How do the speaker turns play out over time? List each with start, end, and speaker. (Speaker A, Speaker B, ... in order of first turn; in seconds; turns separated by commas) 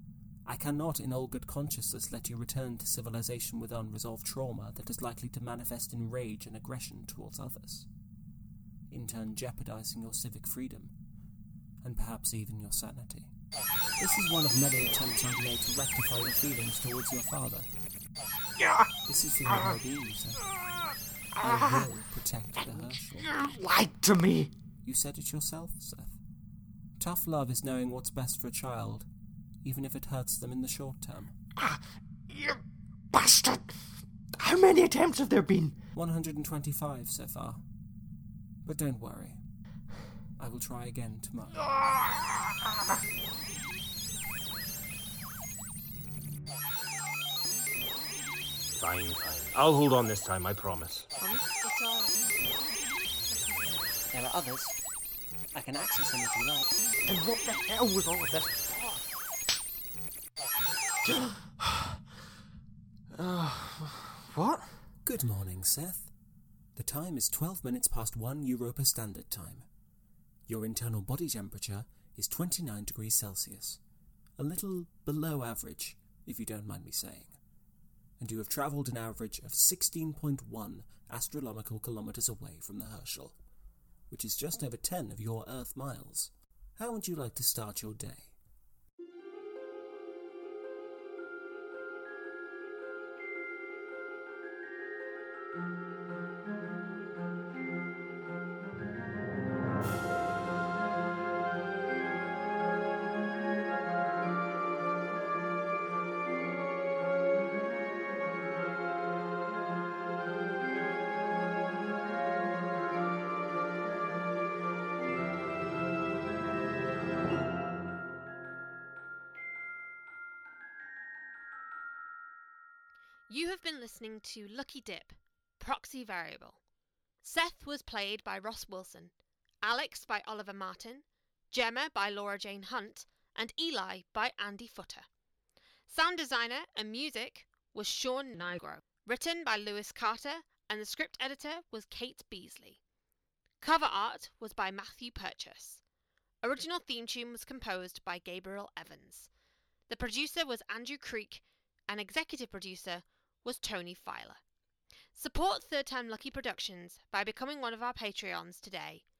Speaker A: 0.5-7.9, Speaker A: 8.9-10.9, Speaker A: 11.8-13.3, Speaker A: 14.0-17.7, Speaker B: 18.6-18.9, Speaker A: 19.0-20.5, Speaker B: 19.5-19.8, Speaker B: 21.3-21.9, Speaker A: 21.4-23.3, Speaker B: 22.6-24.5, Speaker A: 24.8-26.2, Speaker A: 27.0-29.1, Speaker A: 29.6-31.3, Speaker B: 31.6-35.8, Speaker A: 35.9-37.6, Speaker A: 38.6-39.4, Speaker A: 40.4-41.6, Speaker B: 41.6-42.9, Speaker C: 48.8-51.1, Speaker D: 51.2-52.5, Speaker D: 53.3-54.0, Speaker A: 54.1-54.8, Speaker A: 55.5-56.8, Speaker B: 57.1-59.1, Speaker B: 61.0-62.0, Speaker B: 63.1-64.7, Speaker A: 65.0-66.1, Speaker A: 66.8-69.7, Speaker A: 70.5-73.8, Speaker A: 74.4-77.3, Speaker A: 78.2-83.3, Speaker A: 84.1-88.3, Speaker D: 123.3-126.6, Speaker D: 127.2-135.1, Speaker D: 135.9-142.8, Speaker D: 143.6-145.8, Speaker D: 146.4-149.3, Speaker D: 149.9-154.4, Speaker D: 155.1-159.0